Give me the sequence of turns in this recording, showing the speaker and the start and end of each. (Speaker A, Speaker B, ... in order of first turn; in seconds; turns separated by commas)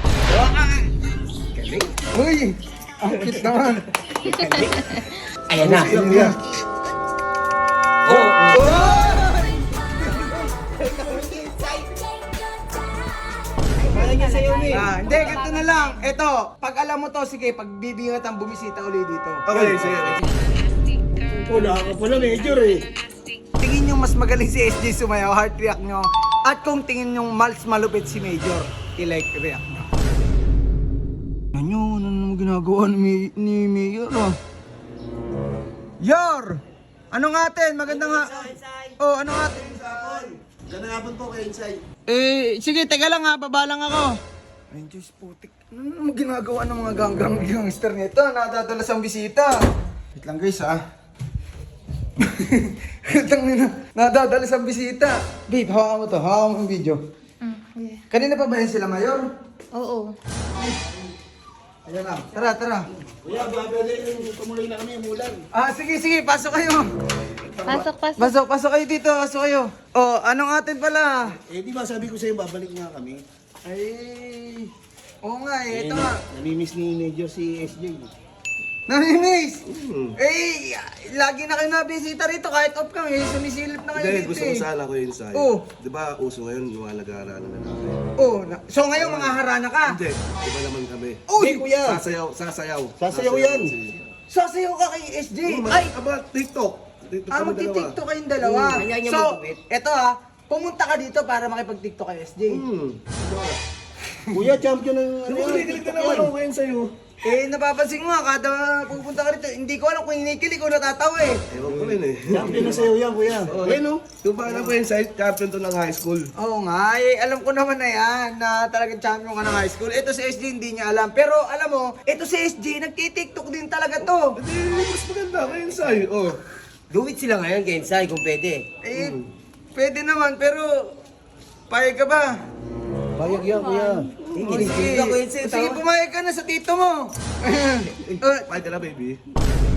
Speaker A: 0.3-0.9, Speaker A: 1.5-1.9, Speaker B: 2.1-3.9, Speaker A: 4.2-6.0, Speaker B: 5.6-6.4, Speaker C: 5.7-6.3, Speaker A: 8.0-9.0, Speaker B: 8.1-10.4, Speaker A: 10.8-11.9, Speaker D: 13.8-16.0, Speaker A: 13.8-14.9, Speaker B: 14.7-20.1, Speaker E: 19.4-20.3, Speaker C: 21.4-22.9, Speaker B: 23.6-29.9, Speaker B: 31.5-34.4, Speaker B: 36.0-36.6, Speaker B: 37.1-38.4, Speaker A: 37.8-40.2, Speaker B: 39.0-40.2, Speaker C: 40.5-41.8, Speaker B: 42.1-44.1, Speaker B: 44.7-49.5, Speaker B: 50.1-50.8, Speaker B: 52.2-57.0, Speaker D: 57.5-58.0, Speaker B: 58.1-59.3, Speaker D: 59.8-60.1, Speaker B: 61.9-62.9, Speaker C: 63.2-65.5, Speaker B: 65.5-66.9, Speaker C: 67.5-67.9, Speaker D: 67.7-68.3, Speaker B: 68.2-71.3, Speaker C: 71.4-73.2, Speaker B: 73.7-74.7, Speaker B: 75.2-76.2, Speaker C: 75.7-78.1, Speaker B: 78.9-79.6, Speaker E: 79.7-80.1, Speaker B: 80.2-84.6, Speaker E: 83.9-88.0, Speaker B: 85.3-85.7, Speaker B: 88.2-90.0, Speaker E: 89.0-94.1, Speaker B: 91.3-91.7, Speaker C: 91.4-92.0, Speaker C: 93.0-93.7, Speaker B: 94.3-95.9, Speaker E: 95.4-98.0, Speaker B: 97.3-102.6, Speaker A: 98.7-99.6, Speaker E: 102.5-103.6, Speaker C: 104.3-106.3, Speaker E: 105.2-106.9, Speaker B: 107.2-111.4, Speaker E: 111.5-116.3, Speaker C: 111.7-114.0, Speaker B: 114.4-114.7, Speaker B: 116.4-124.4, Speaker E: 124.4-126.4, Speaker A: 126.9-128.7, Speaker B: 128.8-129.2, Speaker E: 128.9-129.3, Speaker B: 129.7-130.9, Speaker B: 131.7-132.3, Speaker C: 133.2-134.1, Speaker D: 133.2-134.2, Speaker A: 134.3-135.8, Speaker B: 134.3-138.5, Speaker E: 138.5-139.2